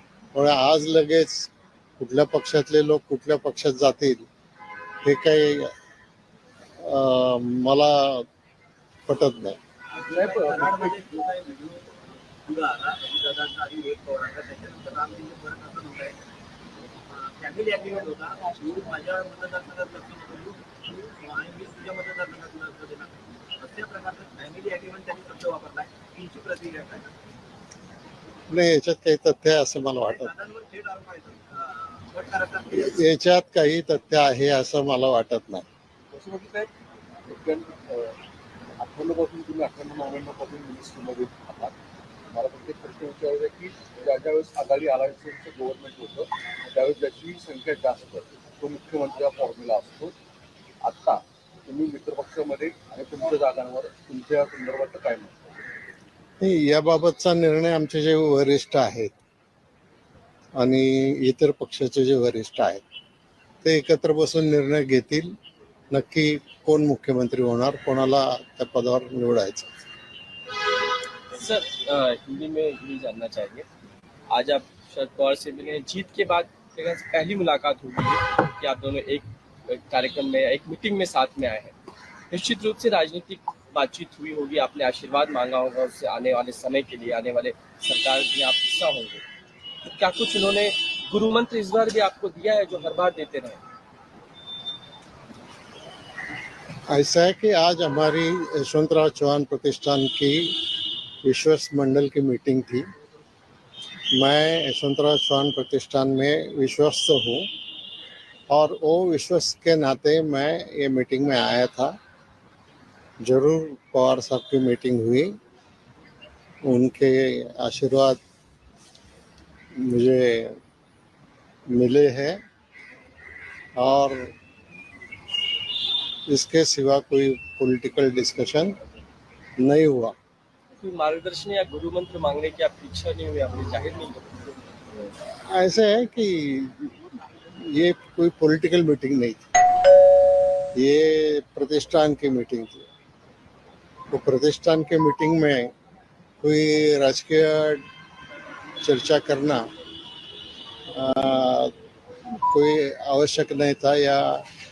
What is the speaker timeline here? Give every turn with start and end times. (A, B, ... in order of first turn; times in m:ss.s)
0:00.3-0:04.3 A
0:05.0-0:05.7 A
0:06.8-0:08.2 A
0:09.1-0:09.6 A
0:10.0-0:16.2 B
0:10.0-0:11.0 C
0:17.1-0:27.1 B
0:28.5-0:30.3 A
0:30.0-0:33.0 B
0:32.7-0:35.6 A
0:36.1-0:36.7 C
0:37.3-0:38.2 C
0:38.8-0:41.7 C
0:42.3-0:50.1 C
0:50.8-0:55.5 C
0:56.4-0:59.1 A
1:00.6-1:02.8 A
1:03.6-1:05.3 A
1:05.9-1:09.8 A
1:11.3-1:13.6 D
1:14.3-1:21.7 D
1:22.3-1:29.2 D
1:29.9-1:33.6 D
1:36.9-1:40.7 A
1:41.2-1:42.8 A
1:44.1-1:47.5 A
1:48.5-1:52.0 A
1:53.2-1:55.3 A
1:56.6-1:58.2 A
1:59.7-2:00.5 A
2:01.7-2:02.4 A
2:03.8-2:04.3 A
2:06.3-2:08.7 A
2:09.6-2:10.1 A
2:10.8-2:14.5 D
2:15.5-2:17.0 A
2:17.5-2:19.4 A
2:20.8-2:22.8 A
2:24.1-2:25.7 A
2:26.4-2:27.8 A
2:28.8-2:29.6 A
2:30.9-2:31.7 A
2:32.5-2:34.4 A